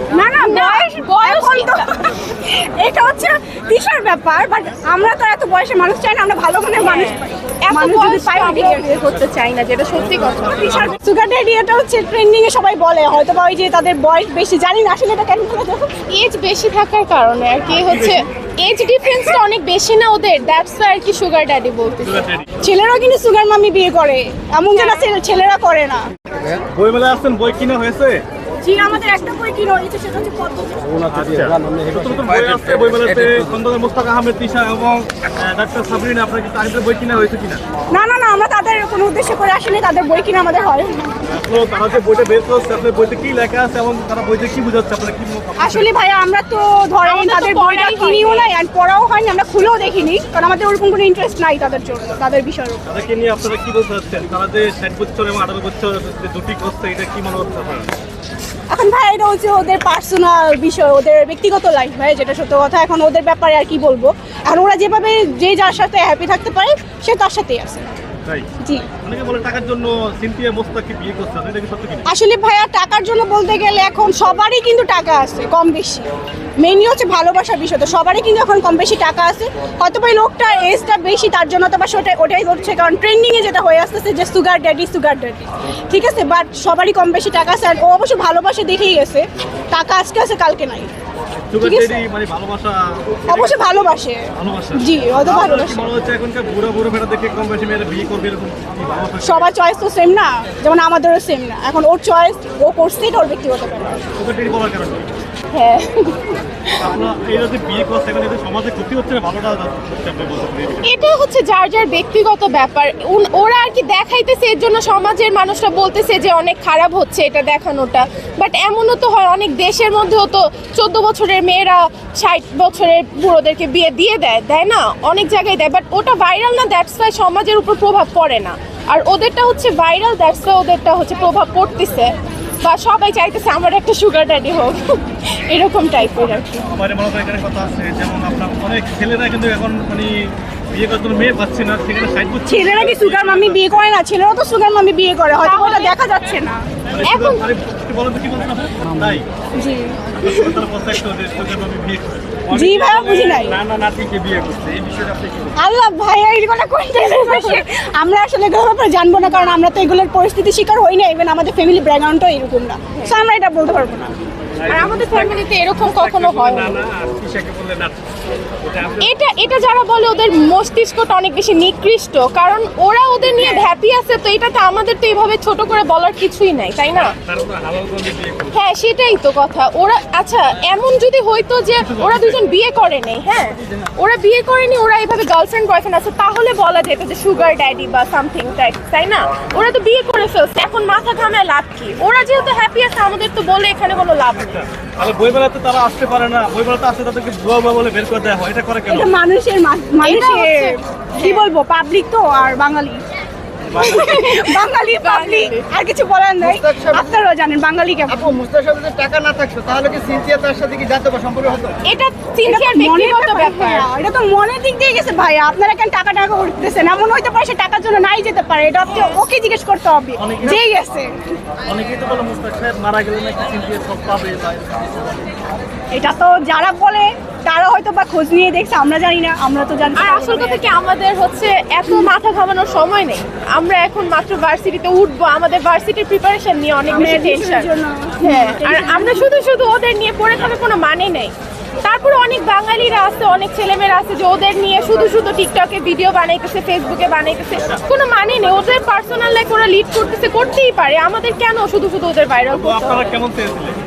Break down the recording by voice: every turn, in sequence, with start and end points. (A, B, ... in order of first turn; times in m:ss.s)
0:00.1-0:08.9 A
0:00.4-0:02.0 B
0:06.8-0:10.8 B
0:10.0-0:11.0 C
0:10.5-0:15.9 A
0:16.1-0:22.1 B
0:17.8-0:18.2 C
0:22.0-0:22.5 C
0:22.6-0:26.0 A
0:24.8-0:25.0 B
0:26.7-0:28.2 C
0:28.6-0:30.9 A
0:31.1-0:37.6 C
0:37.9-0:41.2 A
0:41.3-0:45.9 C
0:45.6-0:52.8 A
0:47.0-0:48.5 B
0:52.9-0:57.9 C
0:58.7-1:07.9 A
1:09.0-1:12.1 C
1:12.1-1:16.1 A
1:16.6-1:30.9 A
1:31.3-1:39.5 C
1:31.6-1:32.0 A
1:33.3-1:35.9 A
1:39.2-1:44.0 A
1:44.2-1:45.1 C
1:45.5-1:47.0 B
1:46.8-1:50.9 C
1:50.8-2:16.7 B
2:16.6-2:23.7 C
2:22.5-2:26.6 A
2:25.4-2:25.9 B
2:26.9-2:29.2 C
2:27.0-2:27.4 B
2:29.6-2:30.5 A
2:30.2-2:35.6 C
2:32.5-2:33.6 A
2:35.6-2:44.1 A
2:37.0-2:37.6 B
2:39.2-2:39.5 B
2:44.6-2:48.0 C
2:44.7-2:46.8 B
2:48.6-2:49.1 C
2:49.0-2:57.2 B
2:53.3-2:53.7 A
2:57.1-2:58.6 C
2:58.5-3:14.7 B
3:01.8-3:02.4 C
3:15.0-3:19.1 C
3:18.9-3:23.0 A
3:20.0-3:21.5 B
3:23.7-3:24.0 C
3:23.7-3:28.3 A
3:23.8-3:25.7 B
3:26.4-3:27.0 D
3:28.2-3:31.8 D
3:31.9-3:33.9 B
3:32.4-3:41.1 A
3:40.2-3:40.6 C
3:41.7-3:44.8 C
3:45.9-3:50.6 A
3:50.0-3:57.7 B
3:56.9-3:59.3 A
3:58.2-4:01.3 B
4:01.8-4:13.1 B
4:12.5-4:13.8 C